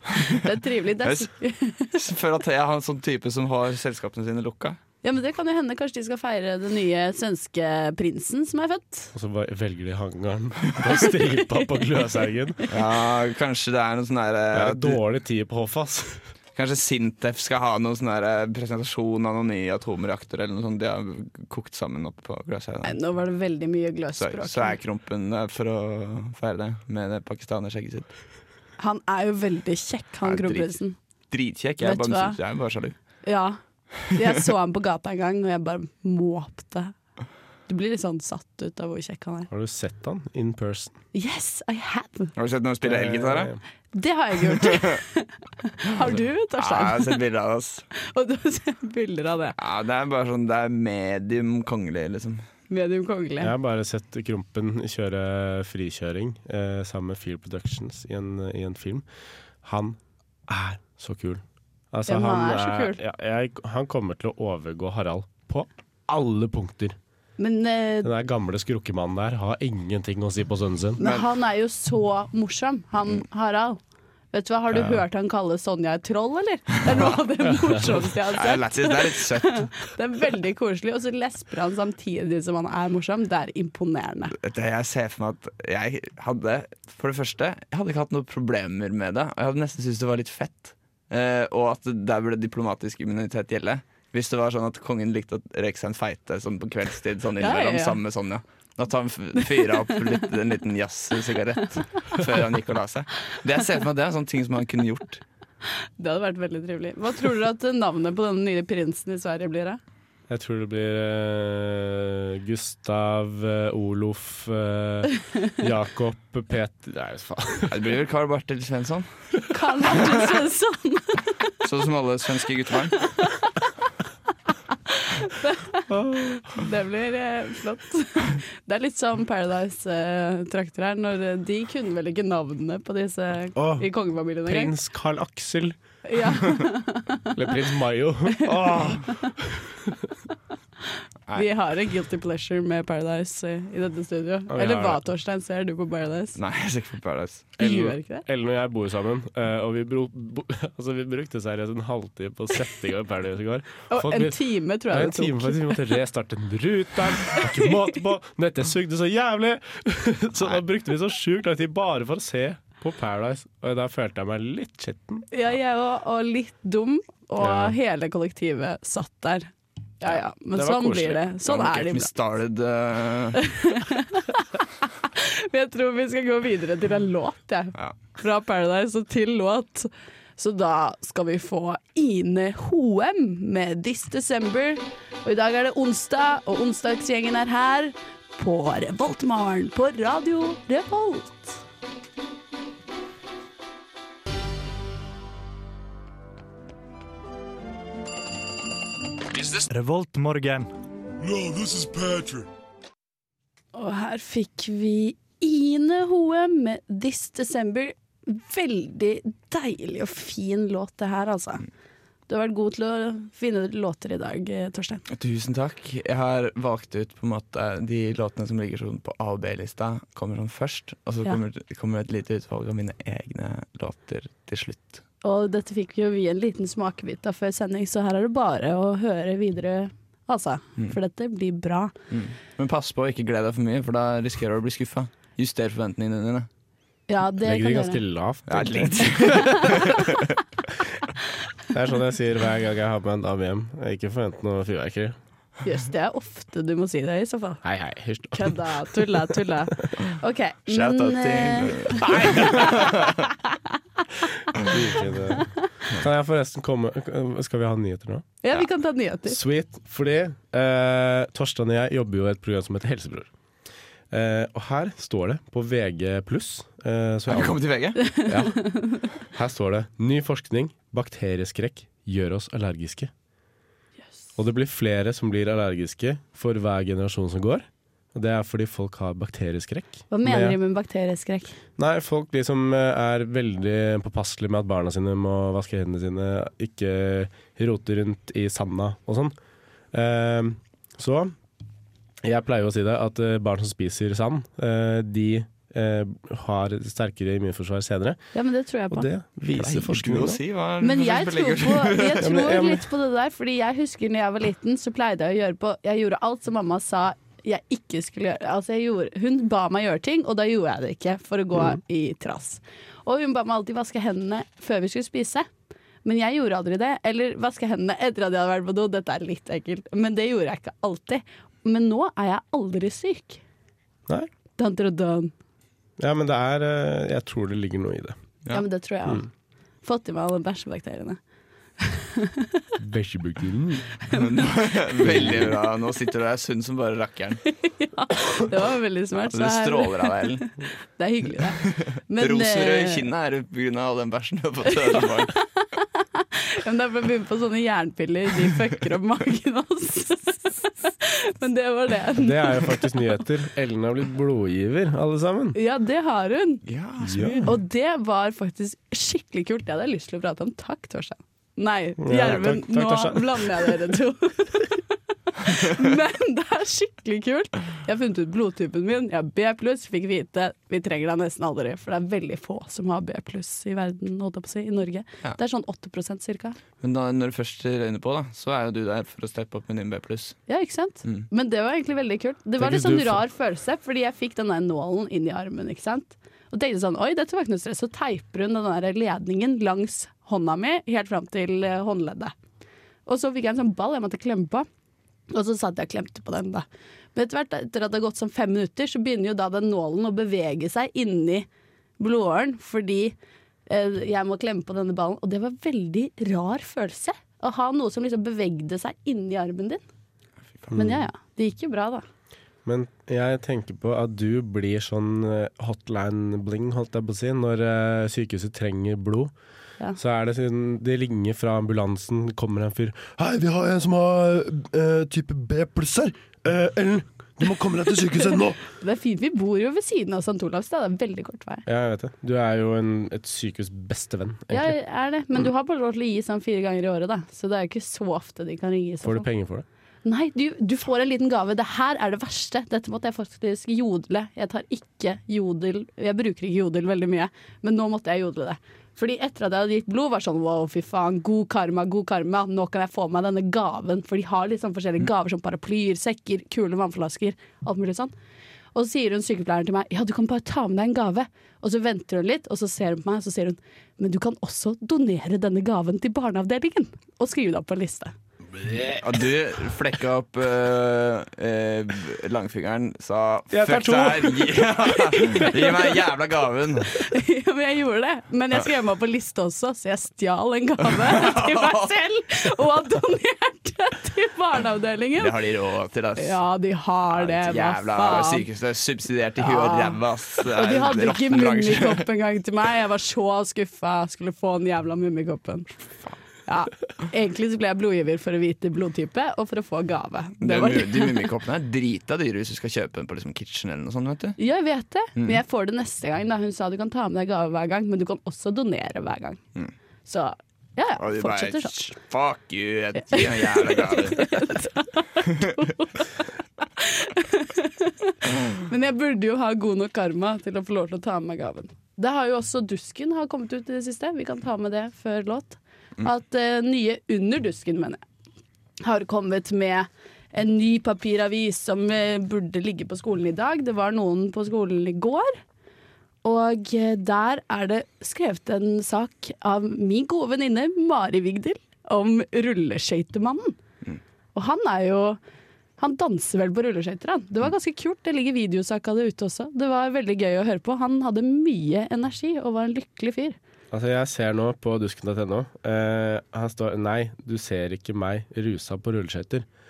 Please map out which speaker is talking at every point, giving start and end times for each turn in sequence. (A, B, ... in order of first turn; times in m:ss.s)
0:00.3-0:01.9 A
0:01.0-0:01.3 B
0:01.9-0:04.8 B
0:05.0-0:09.1 A
0:09.1-0:12.8 C
0:12.7-0:15.0 B
0:14.5-0:16.3 C
0:16.6-0:23.0 B
0:22.8-0:24.8 A
0:24.2-0:28.1 B
0:28.8-0:31.0 A
0:30.2-0:30.8 B
0:31.3-0:33.0 B
0:31.8-0:32.4 A
0:33.2-0:37.0 A
0:37.7-0:39.5 A
0:39.5-0:41.0 C
0:41.1-0:42.3 A
0:42.4-0:43.5 B
0:42.8-0:43.6 C
0:43.9-0:47.2 A
0:46.6-0:47.9 B
0:48.0-0:49.6 A
0:49.6-0:52.5 B
0:52.7-0:53.5 A
0:53.4-0:59.1 C
0:59.6-1:07.0 C
1:02.1-1:03.0 A
1:07.4-1:08.1 A
1:08.0-1:11.0 C
1:11.0-1:13.8 A
1:14.3-1:24.3 A
1:14.7-1:15.0 C
1:16.9-1:17.2 B
1:17.5-1:17.8 C
1:18.4-1:19.8 B
1:24.4-1:45.2 B
1:37.4-1:38.0 A
1:46.0-1:49.8 A
1:50.3-1:57.8 C
1:57.7-1:59.3 B
1:59.5-2:01.5 A
2:01.6-2:03.1 B
2:03.0-2:03.5 A
2:04.9-2:05.9 A
2:05.9-2:06.6 C
2:06.5-2:14.7 A
2:13.6-2:15.8 C
2:16.0-2:17.3 A
2:17.3-2:20.1 C
2:21.4-2:26.4 A
2:24.5-2:25.0 C
2:26.4-2:27.5 B
2:27.6-2:45.3 C
2:27.6-2:28.2 A
2:33.9-2:36.0 A
2:37.4-2:37.8 A
2:45.3-2:52.1 A
2:47.4-2:47.8 C
2:50.1-2:51.2 C
2:51.5-2:53.4 B
2:53.4-3:11.6 A
3:19.5-3:20.7 D
3:21.2-3:22.5 D
3:23.7-3:31.7 A
3:32.3-3:35.0 A
3:35.1-3:45.0 B
3:45.2-3:51.9 A
3:52.1-3:56.5 B
3:57.1-3:58.0 A
3:57.4-3:59.7 C
3:58.5-4:00.2 B
4:01.7-4:05.2 C
4:05.6-4:07.6 A
4:07.6-4:09.2 C
4:08.3-4:13.6 A
4:10.7-4:13.2 B
4:12.2-4:12.5 C
4:14.5-4:18.3 C
4:18.4-4:19.4 A
4:19.3-4:23.3 C
4:24.1-4:27.6 C
4:27.3-4:28.0 B
4:28.0-4:29.0 A
4:28.1-4:33.1 C
4:34.4-4:40.6 C
4:40.1-4:41.6 A
4:41.8-4:49.4 C
4:49.9-4:51.4 C
4:52.2-4:58.2 C
4:58.3-4:59.1 A
4:58.9-5:00.4 C
4:59.5-5:02.2 B
5:00.8-5:15.5 A
5:02.2-5:02.9 C
5:16.0-5:23.4 A
5:24.6-5:25.3 A
5:26.0-5:28.2 C
5:28.5-5:29.3 A
5:29.8-5:31.2 A
5:31.8-5:32.6 A
5:32.8-5:33.9 C
5:34.1-5:34.4 A
5:34.1-5:37.4 B
5:35.0-5:35.6 C
5:37.5-5:43.0 A
5:39.3-5:40.5 B
5:41.6-5:45.3 B
5:45.0-5:53.0 A
5:52.2-5:55.6 C
5:55.6-5:56.6 A
5:56.7-5:57.5 B
5:57.0-5:57.5 C
5:57.4-6:16.6 A
6:02.0-6:03.8 C
6:16.8-6:20.4 B
6:20.5-6:32.3 A
6:22.6-6:23.2 C
6:33.1-6:34.7 A
6:35.3-6:41.5 A
6:42.0-6:43.2 A
6:43.7-6:49.8 A
6:50.7-6:52.0 A
6:52.6-6:59.3 C
7:00.0-7:08.6 C
7:08.6-7:11.6 A
7:11.7-7:14.8 C
7:14.5-7:19.3 A
7:19.0-7:19.6 C
7:20.0-7:38.1 A
7:38.8-7:48.1 A
7:48.6-7:49.0 C
7:49.0-7:57.0 B
7:53.5-7:54.8 C
7:55.1-7:55.9 A
7:56.9-8:05.4 A
8:01.0-8:01.9 B
8:05.2-8:06.4 B
8:06.2-8:08.4 A
8:07.2-8:12.0 B
8:09.4-8:15.7 A
8:16.5-8:21.3 A
8:20.4-8:24.4 B
8:24.4-8:29.4 A
8:25.2-8:25.4 B
8:30.1-8:31.8 A
8:31.0-8:34.3 B
8:33.0-8:48.0 A
8:48.8-8:55.4 A
8:56.2-9:03.6 A
9:04.4-9:05.2 A
9:05.8-9:13.4 A
9:13.7-9:19.5 C